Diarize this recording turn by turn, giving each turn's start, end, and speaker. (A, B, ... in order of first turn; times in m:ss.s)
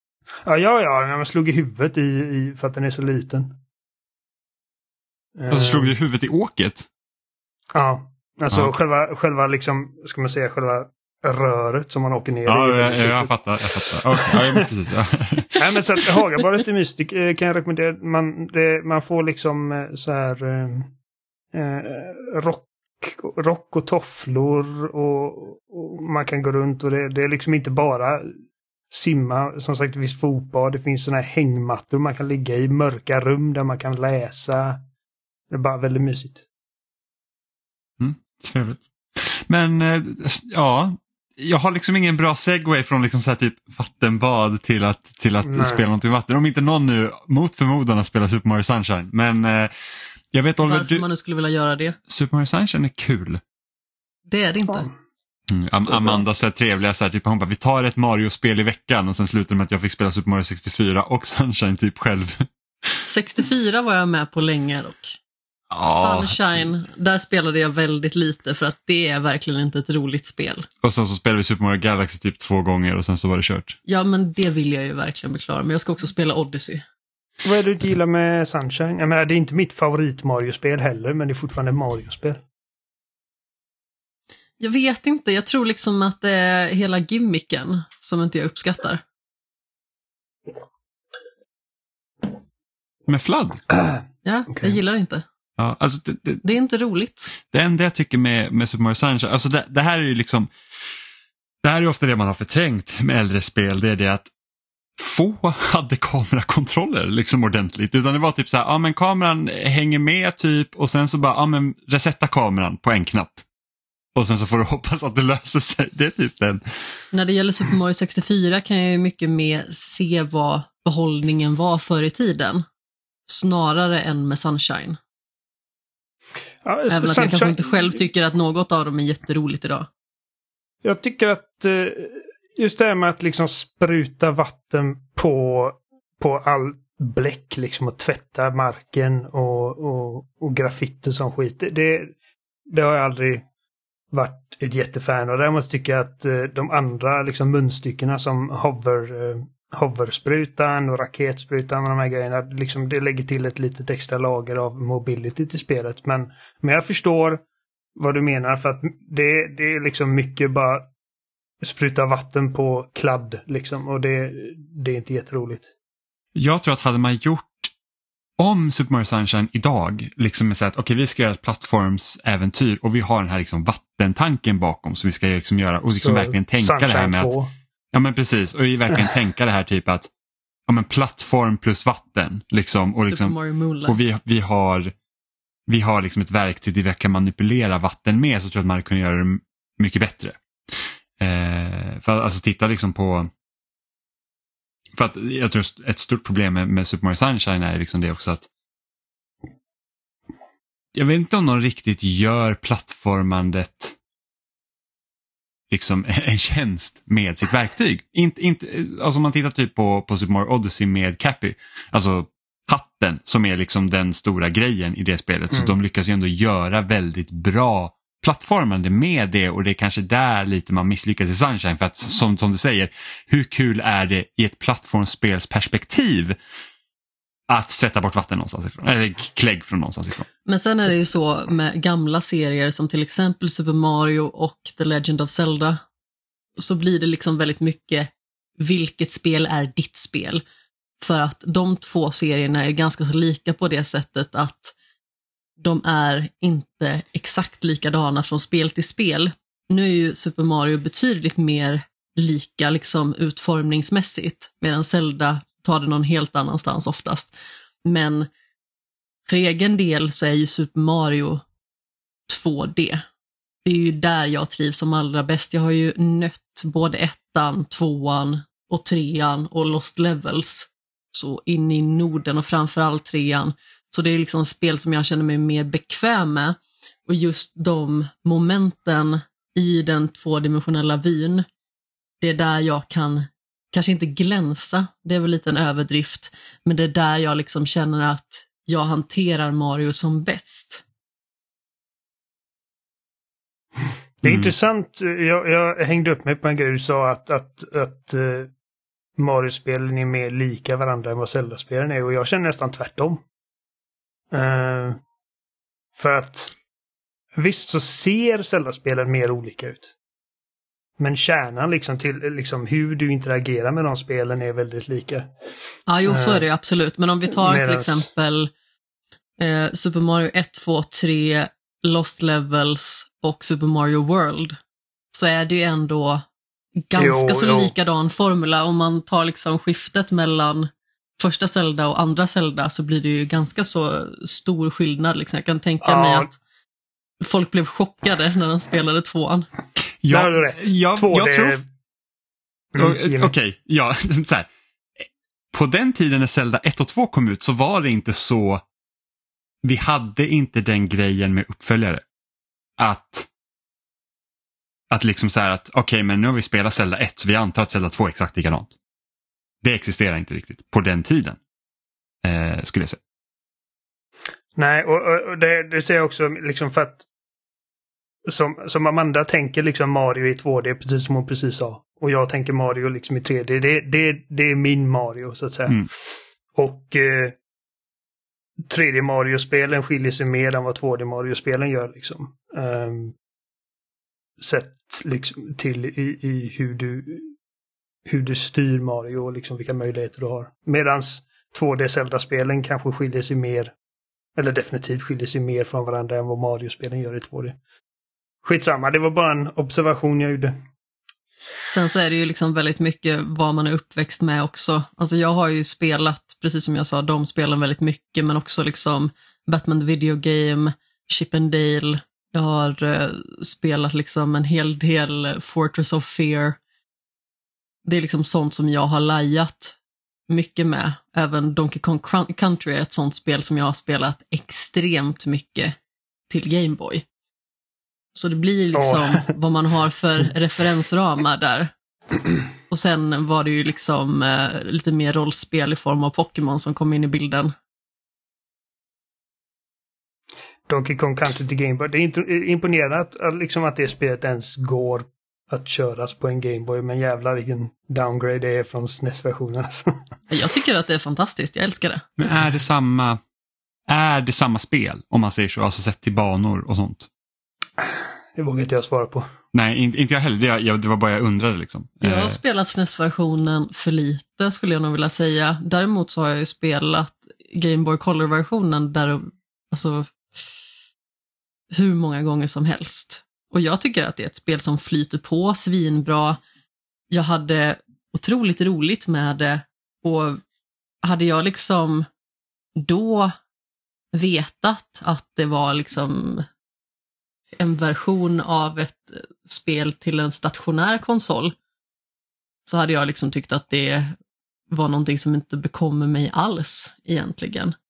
0:00.4-0:03.6 A
0:05.4-0:05.9 A
0:05.5-0:06.9 B
0:07.7-0:14.7 A
0:12.5-0:16.2 B
0:15.6-0:20.9 A
0:21.5-0:28.3 A
0:28.9-0:34.8 A
0:35.5-0:36.4 A
0:38.0-0:49.7 B
0:45.4-0:45.8 A
0:50.3-0:51.0 B
0:50.6-0:52.0 C
0:52.1-0:53.4 B
0:54.3-0:54.9 C
0:55.5-1:02.9 B
1:03.1-1:05.2 C
1:05.7-1:06.7 B
1:05.8-1:10.7 C
1:10.8-1:13.8 B
1:13.9-1:16.8 C
1:17.4-1:22.4 A
1:24.6-1:29.0 C
1:33.1-1:33.6 B
1:34.2-1:35.2 C
1:35.6-1:36.4 B
1:36.4-1:37.3 C
1:37.5-1:40.5 B
1:41.6-1:44.3 B
1:45.0-1:53.4 B
1:54.2-1:56.6 B
1:57.1-2:02.6 C
2:03.3-2:05.0 C
2:06.6-2:08.0 A
2:06.9-2:09.9 C
2:10.8-2:22.1 A
2:22.7-2:23.4 A
2:24.1-2:37.4 A
2:38.0-2:40.9 A
2:41.6-2:45.7 A
2:46.4-2:47.7 B
2:48.4-2:57.3 B
2:55.9-2:57.5 A
2:57.9-3:00.1 B
3:00.7-3:03.4 B
3:03.0-3:04.0 C
3:03.9-3:04.9 B
3:05.7-3:10.4 B
3:11.2-3:13.3 B
3:15.0-3:18.5 B
3:21.0-3:24.0 B
3:25.7-3:46.4 B
3:47.5-3:50.3 B
3:50.5-3:55.8 C
3:56.6-4:00.4 C
4:01.0-4:04.7 C
4:05.6-4:18.3 C
4:19.3-4:21.4 C
4:22.3-4:23.0 C
4:23.6-4:41.4 C
4:42.2-4:50.8 C
4:54.2-4:58.5 A
4:54.2-4:54.5 B
4:59.2-5:03.2 A
5:04.3-5:05.0 A
5:06.0-5:06.5 A
5:07.4-5:09.9 A
5:11.0-5:15.3 A
5:15.9-5:18.5 C
5:16.0-5:16.5 A
5:17.4-5:18.1 A
5:19.4-5:24.6 C
5:25.1-5:26.2 C
5:26.9-5:36.3 C
5:27.0-5:27.7 A
5:35.8-5:36.3 A
5:37.2-5:39.5 C
5:40.0-5:41.6 B
5:40.1-5:41.6 A
5:42.7-5:43.3 A
5:42.8-5:44.5 B
5:45.0-5:48.6 B
5:49.6-5:52.0 B
5:52.8-5:53.3 B
5:54.9-5:58.7 B
5:59.6-6:01.4 B
6:02.2-6:03.0 B
6:04.6-6:07.1 A
6:08.3-6:15.9 A
6:16.6-6:17.4 A
6:18.7-6:23.2 A
6:24.4-6:27.3 A
6:28.1-6:33.7 A
6:34.4-6:37.6 A
6:38.4-6:40.6 A
6:41.7-6:56.6 C
6:57.8-6:59.8 C
7:00.3-7:05.8 C
7:06.3-7:07.0 C
7:08.1-7:11.7 C
7:08.7-7:09.3 A
7:12.7-7:17.5 C
7:20.7-7:29.9 A
7:30.3-7:32.1 C
7:32.2-7:33.2 B
7:33.9-7:37.1 B
7:37.8-7:39.3 A
7:39.5-7:42.4 B
7:42.0-7:50.2 C
7:51.7-7:56.4 C
7:57.1-8:00.4 C
8:01.0-8:02.1 C
8:02.8-8:03.4 C
8:04.1-8:06.5 C
8:07.6-8:11.6 C
8:12.7-8:14.2 C
8:14.7-8:17.8 C